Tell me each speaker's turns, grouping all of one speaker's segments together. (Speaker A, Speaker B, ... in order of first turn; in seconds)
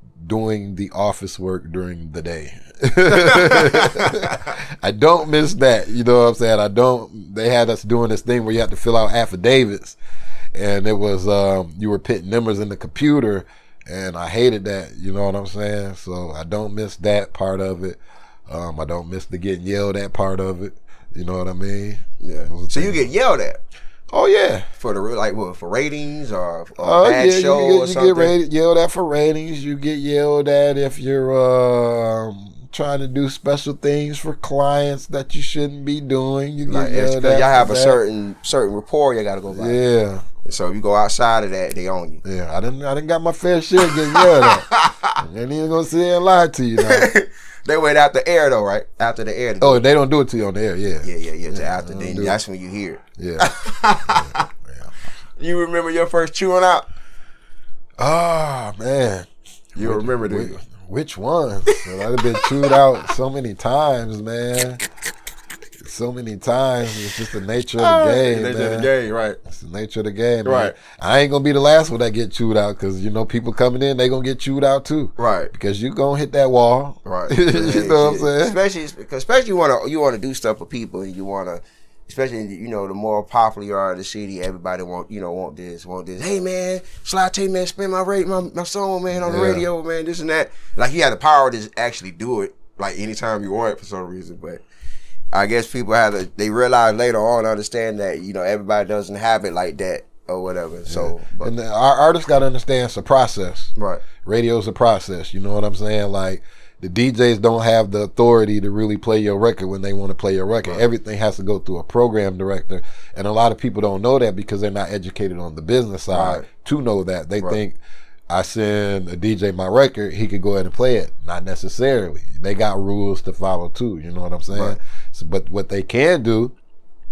Speaker A: 0.2-10.0, 10.5-23.0, 24.1-24.7, 26.8-38.0, 39.5-40.2, 42.2-44.6, 45.2-47.1, 49.6-52.4, 53.2-53.5, 54.0-54.9, 58.0-64.8, 65.8-68.9, 69.5-78.6, 89.1-89.7, 100.9-103.7, 104.2-117.8, 118.3-126.5
Speaker B: 3.1-4.5, 22.2-23.6, 24.8-28.3, 36.7-39.8, 40.4-42.2, 43.8-45.2, 46.8-49.8, 51.0-54.5, 55.4-56.9, 59.8-60.6, 61.7-62.8, 67.8-69.4, 70.4-70.7, 75.2-75.5, 77.0-94.6, 95.3-101.5, 103.8-104.0, 116.1-116.5, 124.5-124.8